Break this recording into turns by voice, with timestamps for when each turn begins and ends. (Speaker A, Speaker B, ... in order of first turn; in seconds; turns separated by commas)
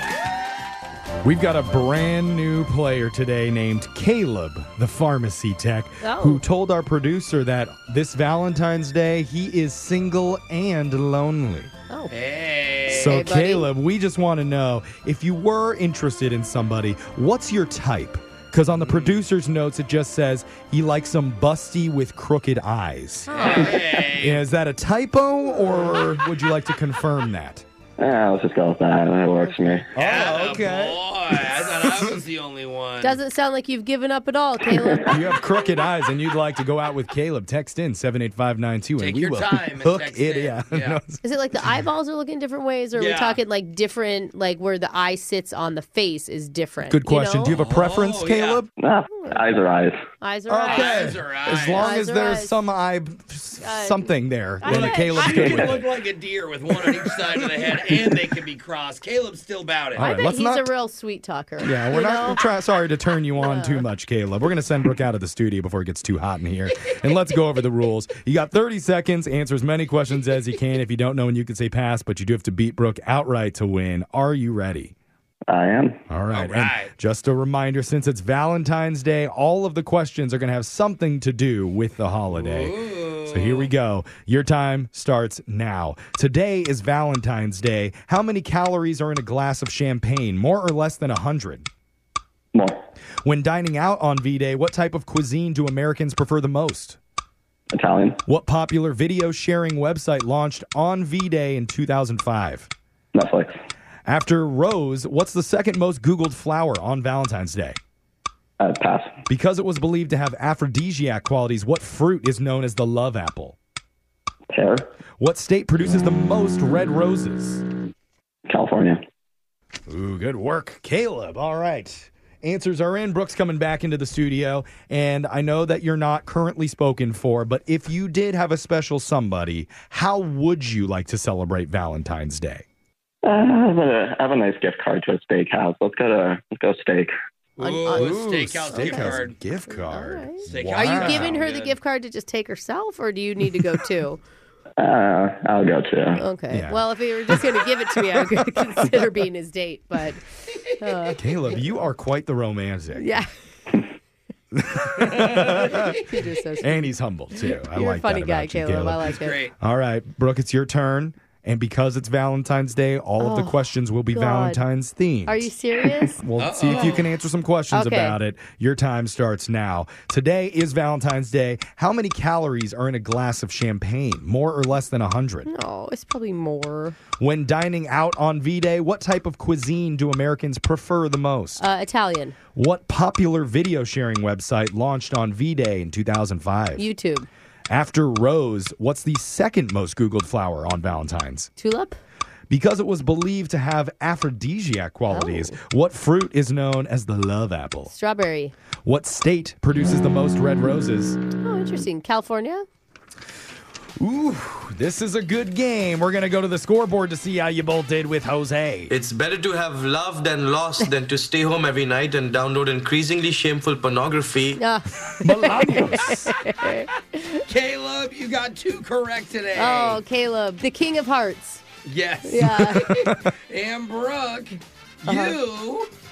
Speaker A: 1.2-11.7, Speaker B: 6.0-6.4, Speaker C: 12.1-13.2, Speaker A: 12.9-27.6, Speaker B: 12.9-13.7, Speaker C: 18.8-19.1, Speaker B: 23.3-23.8, Speaker C: 23.3-24.4, Speaker D: 28.0-29.9, Speaker A: 29.9-31.0, Speaker C: 29.9-33.2, Speaker A: 31.6-32.2, Speaker B: 33.0-35.4, Speaker A: 35.0-41.7, Speaker C: 39.0-41.0, Speaker B: 41.2-47.6, Speaker C: 42.9-43.4, Speaker A: 46.8-48.7, Speaker C: 47.5-48.6, Speaker D: 48.8-50.0, Speaker B: 49.1-49.6, Speaker B: 50.2-51.1, Speaker A: 50.5-55.9, Speaker C: 50.6-51.9, Speaker B: 51.8-52.5, Speaker B: 53.6-55.6, Speaker C: 54.6-60.0, Speaker A: 56.8-58.0, Speaker A: 60.0-60.7, Speaker B: 60.0-62.4, Speaker A: 61.6-74.9, Speaker B: 63.4-63.9, Speaker D: 75.5-76.0, Speaker A: 76.1-82.8, Speaker C: 76.3-76.9, Speaker C: 82.3-83.7, Speaker A: 83.3-91.7, Speaker D: 92.5-92.8, Speaker A: 93.2-97.0, Speaker D: 97.7-98.2, Speaker A: 98.2-102.7, Speaker D: 103.1-103.5, Speaker A: 104.0-107.8, Speaker D: 108.6-109.1, Speaker A: 109.3-113.6, Speaker D: 114.5-114.9, Speaker A: 115.2-117.6, Speaker D: 118.5-119.0, Speaker A: 119.9-132.7, Speaker D: 133.2-137.1, Speaker C: 137.6-139.3, Speaker B: 137.6-144.2, Speaker A: 137.9-141.3, Speaker C: 140.4-141.8, Speaker D: 144.8-146.2, Speaker B: 146.1-150.2, Speaker A: 146.5-148.3, Speaker B: 150.7-151.2, Speaker A: 151.2-153.2, Speaker B: 152.9-153.3, Speaker A: 154.5-165.5, Speaker B: 155.4-159.4, Speaker C: 159.2-159.5, Speaker B: 163.2-163.6, Speaker B: 164.1-164.6, Speaker B: 165.2-166.9, Speaker A: 166.1-175.5, Speaker C: 166.4-167.1, Speaker B: 167.7-168.2, Speaker B: 175.5-177.0, Speaker A: 177.2-181.6, Speaker B: 181.6-182.3, Speaker A: 182.5-186.8, Speaker B: 186.8-187.3, Speaker A: 187.7-191.5, Speaker B: 191.6-192.0, Speaker A: 192.5-197.9, Speaker B: 195.1-195.6, Speaker B: 197.9-198.5, Speaker A: 198.8-201.2, Speaker B: 201.4-202.7, Speaker A: 204.0-208.9, Speaker E: 208.9-214.6, Speaker B: 214.6-217.4, Speaker A: 215.2-216.3, Speaker C: 217.4-220.0, Speaker B: 219.5-221.6, Speaker C: 221.8-225.9, Speaker B: 222.2-222.9, Speaker A: 222.4-223.3, Speaker B: 225.1-225.3